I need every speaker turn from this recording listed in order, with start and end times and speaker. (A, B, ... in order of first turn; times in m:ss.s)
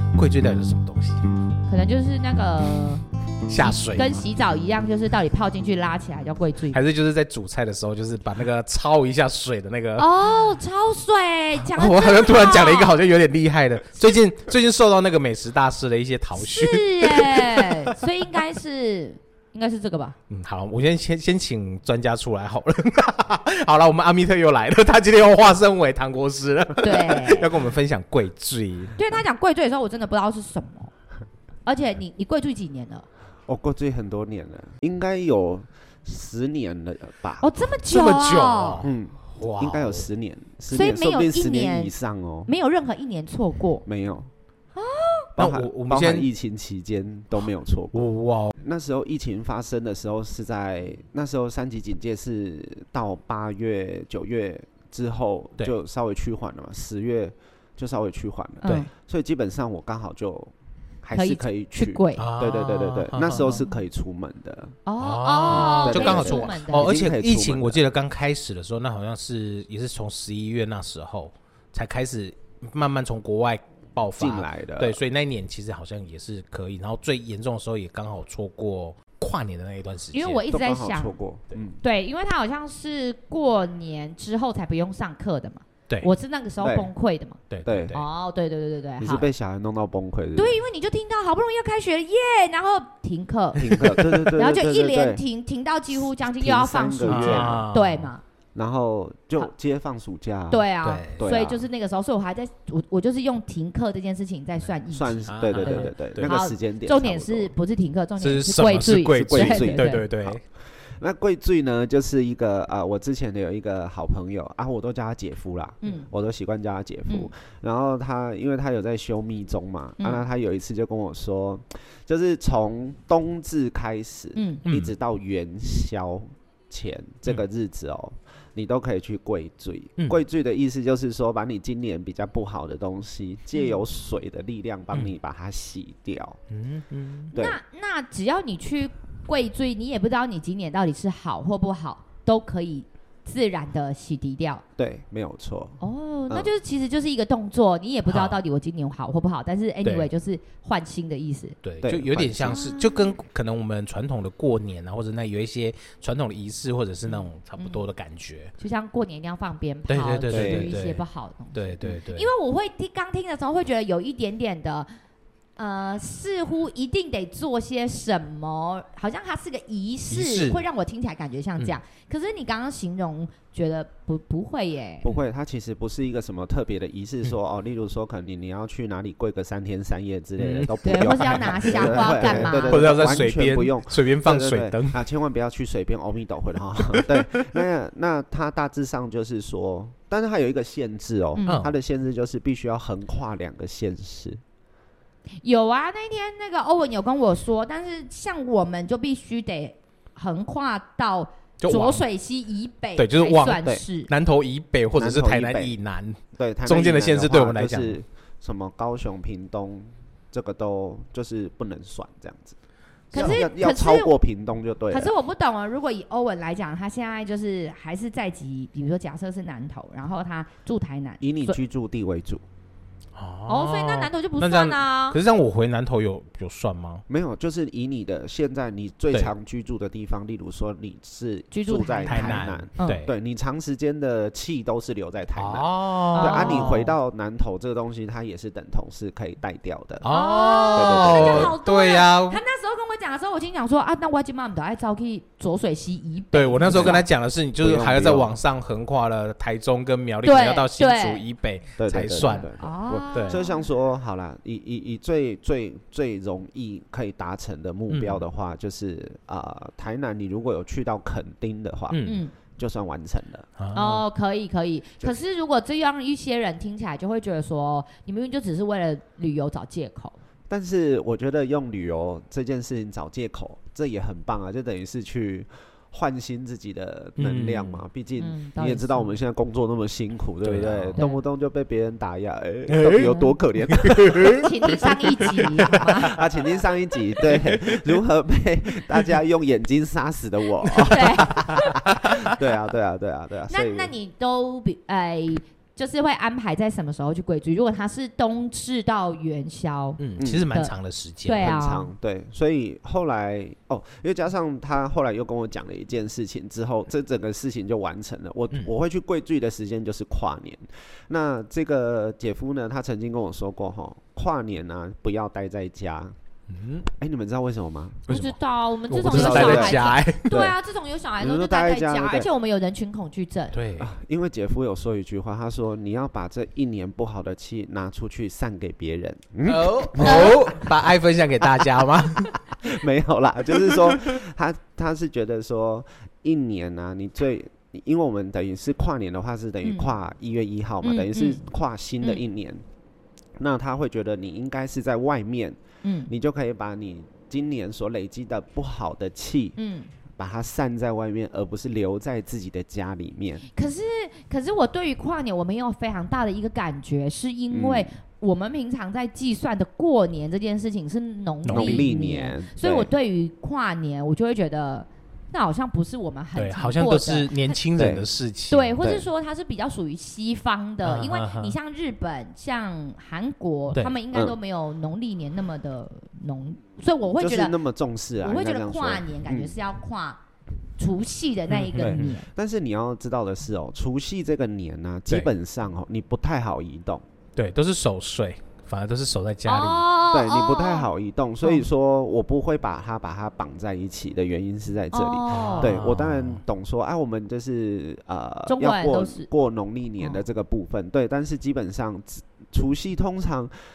0:00.1-0:01.3 A
0:01.7-0:03.0 B
0:03.5-0:04.2 A
0:03.6-0:06.8 B
0:06.7-0:10.1 A
0:10.0-0:13.0 B
0:11.7-0:18.0 A
0:16.4-0:20.2 B
0:20.3-0:29.0 A
0:26.8-0:27.5 B
0:29.0-0:30.9 B
0:31.6-0:33.0 B
0:33.5-0:37.5 C
0:37.4-0:38.8 B
0:37.8-0:40.1 A
0:38.8-0:42.5 C
0:40.7-0:41.9 B
0:42.4-0:43.8 B
0:43.8-0:44.3 C
0:44.8-0:45.3 B
0:45.4-0:46.3 A
0:45.4-0:48.0 C
0:47.9-0:48.5 A
0:48.5-1:04.8 C
0:58.6-0:58.9 B
1:01.1-1:02.2 B
1:02.2-1:03.6 A
1:03.4-1:03.8 B
1:04.8-1:06.9 B
1:05.0-1:20.4 A
1:05.5-1:07.8 C
1:14.1-1:15.0 C
1:20.1-1:21.2 B
1:20.5-1:21.8 C
1:21.8-1:27.4 B
1:26.6-1:26.9 C
1:27.5-1:28.0 A
1:27.6-1:28.0 C
1:27.9-1:29.3 B
1:29.0-1:30.6 C
1:30.4-1:33.6 B
1:33.5-1:35.2 C
1:33.6-1:34.0 A
1:34.3-1:38.2 B
1:35.9-1:37.6 C
1:37.0-1:38.1 A
1:38.5-1:41.6 C
1:40.5-1:50.0 B
1:40.8-1:41.2 A
1:44.9-1:47.5 C
1:45.3-1:46.3 A
1:48.2-1:50.4 A
1:49.2-2:16.4 C
1:55.8-1:56.1 B
2:00.0-2:00.2 B
2:04.3-2:04.6 B
2:04.6-2:04.9 A
2:13.5-2:13.8 B
2:16.5-2:17.3 A
2:17.3-2:24.6 B
2:24.8-2:26.5 C
2:25.8-2:31.6 B
2:28.1-2:28.4 A
2:31.6-2:38.5 A
2:31.8-2:32.6 C
2:32.4-2:33.2 B
2:37.0-2:37.8 B
2:38.6-2:44.9 B
2:39.9-2:42.3 A
2:40.3-2:40.8 C
2:45.6-2:55.1 B
2:50.1-2:50.6 A
2:55.0-3:14.4 C
3:00.4-3:05.0 A
3:00.8-3:02.9 B
3:06.8-3:07.5 A
3:11.4-3:11.6 B
3:11.5-3:11.8 A
3:15.4-3:24.1 B
3:21.6-3:22.0 A
3:23.0-3:28.0 A
3:25.0-3:25.8 C
3:26.4-3:32.6 C
3:33.1-3:35.1 C
3:33.1-3:34.1 B
3:34.9-3:41.6 B
3:41.2-3:42.4 C
3:43.2-3:47.0 A
3:43.5-3:45.2 B
3:47.1-4:00.0 C
3:51.5-3:53.0 B
3:52.0-3:53.1 A
3:55.4-3:56.9 A
3:56.1-3:56.9 B
4:00.0-4:02.4 A
4:00.0-4:07.0 B
4:00.7-4:01.6 C
4:06.3-4:12.5 A
4:06.7-4:07.0 C
4:07.6-4:08.3 C
4:10.2-4:11.2 B
4:11.8-4:23.5 C
4:12.3-4:13.6 B
4:13.1-4:13.4 A
4:17.9-4:18.2 A
4:21.9-4:22.2 A
4:22.0-4:22.3 B
4:23.6-4:24.0 A
4:23.7-4:30.2 B
4:30.5-4:53.9 C
4:37.2-4:37.8 A
4:38.2-4:39.1 B
4:40.4-4:41.0 A
4:41.0-4:41.2 B
4:42.7-4:46.1 A
4:44.2-4:46.1 B
4:47.2-4:47.8 A
4:50.8-4:51.8 B
4:51.6-4:52.3 A
4:53.5-5:00.7 B
5:00.0-5:01.5 A
5:00.2-5:00.5 C
5:01.2-5:01.9 B
5:01.3-5:16.1 C
5:16.5-5:16.9 A
5:16.9-5:18.1 C
5:18.1-5:18.4 A
5:18.1-5:23.6 B
5:18.9-5:20.3 A
5:19.0-5:20.6 C
5:21.2-5:22.3 C
5:23.5-5:23.9 A
5:23.8-5:30.6 C
5:29.4-5:32.6 A
5:30.0-5:30.4 B
5:32.6-5:42.6 C
5:33.6-5:34.1 A
5:39.6-5:39.9 B
5:40.8-5:41.4 B
5:43.4-5:49.6 C
5:45.8-5:46.1 B
5:49.6-5:49.9 B
5:50.2-5:53.5 C
5:53.5-6:07.6 B
5:57.5-5:57.9 C
6:01.4-6:01.9 A
6:01.5-6:02.9 C
6:06.4-6:08.8 A
6:07.7-6:08.1 C
6:08.5-6:17.6 B
6:10.8-6:11.5 A
6:14.1-6:14.4 C
6:17.2-6:19.6 C
6:18.2-6:20.2 B
6:20.8-6:22.3 B
6:21.5-6:22.1 A
6:21.8-6:27.0 C
6:27.4-6:29.9 A
6:29.4-6:30.9 B
6:30.1-6:43.5 C
6:34.9-6:35.8 B
6:35.3-6:36.4 A
6:38.5-6:39.3 B
6:40.0-6:40.2 B